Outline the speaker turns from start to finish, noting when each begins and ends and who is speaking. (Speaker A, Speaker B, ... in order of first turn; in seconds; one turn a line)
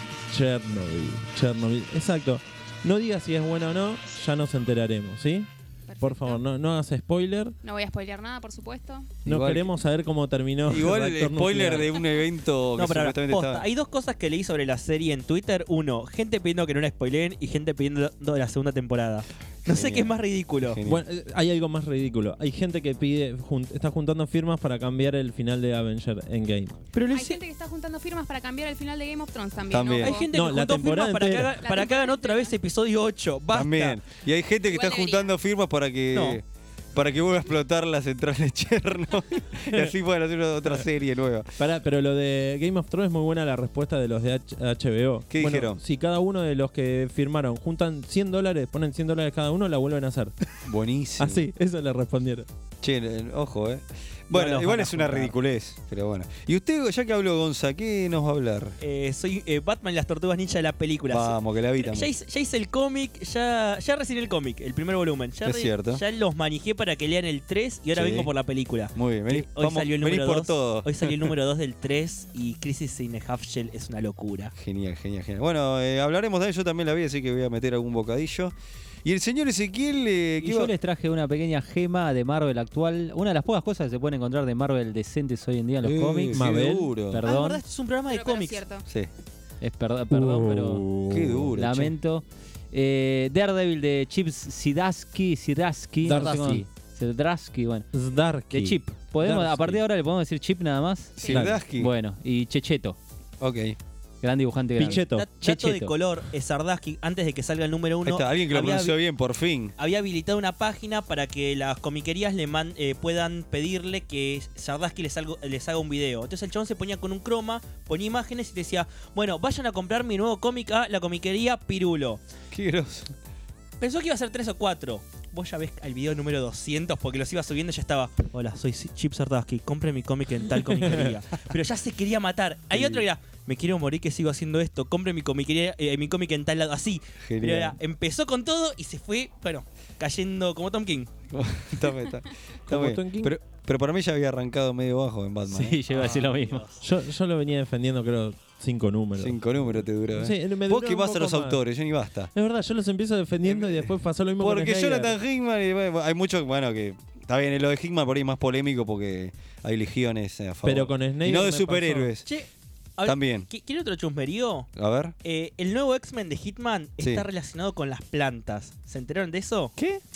Speaker A: 0.3-5.5
Speaker B: 5.9-6.4
Speaker A: 6.0-7.6
Speaker B: 7.6-9.2
Speaker C: 9.2-9.7
Speaker A: 9.2-12.0
Speaker C: 10.7-13.7
Speaker D: 12.8-20.8
Speaker C: 19.7-21.0
Speaker A: 20.9-26.8
Speaker D: 26.9-27.4
Speaker B: 27.1-30.3
Speaker C: 29.7-30.2
Speaker D: 30.0-34.0
Speaker A: 30.3-31.6
Speaker B: 31.6-32.5
Speaker C: 33.5-36.4
Speaker B: 34.6-35.3
Speaker D: 36.1-36.4
Speaker C: 37.0-41.6
Speaker A: 41.6-50.3
Speaker C: 45.3-45.8
Speaker C: 50.6-51.5
Speaker A: 51.2-52.5
Speaker C: 52.8-58.8
Speaker D: 54.3-55.3
Speaker D: 58.8-74.5
Speaker C: 61.1-62.1
Speaker C: 65.5-66.0
Speaker C: 67.9-68.3
Speaker C: 69.0-71.3
Speaker C: 74.6-80.7
Speaker E: 80.4-87.6
Speaker C: 85.8-87.2
Speaker A: 86.3-87.0
Speaker D: 87.2-88.6
Speaker B: 88.1-88.9
Speaker E: 89.6-90.9
Speaker A: 90.1-91.6
Speaker C: 91.0-91.9
Speaker E: 91.5-97.9
Speaker A: 96.0-96.7
Speaker C: 96.1-96.6
Speaker A: 97.9-98.8
Speaker E: 98.5-103.0
Speaker C: 99.2-99.8
Speaker B: 101.2-101.5
Speaker C: 101.2-101.9
Speaker A: 101.3-101.6
Speaker C: 103.4-103.8
Speaker E: 104.2-105.9
Speaker A: 104.8-105.3
Speaker D: 104.9-109.0
Speaker C: 108.0-109.7
Speaker D: 109.8-122.2
Speaker C: 122.5-123.1
Speaker D: 123.8-141.1
Speaker A: 130.7-131.1
Speaker C: 132.7-133.0
Speaker C: 137.3-137.8
Speaker C: 141.3-145.8
Speaker A: 142.7-143.3
Speaker E: 145.5-146.6
Speaker D: 145.9-146.8
Speaker A: 146.8-151.6
Speaker C: 149.2-152.3
Speaker A: 152.3-155.2
Speaker C: 153.5-162.3
Speaker A: 160.6-162.1
Speaker D: 162.2-164.7
Speaker C: 163.1-163.5
Speaker C: 164.8-165.2
Speaker D: 165.2-169.8
Speaker C: 167.0-167.3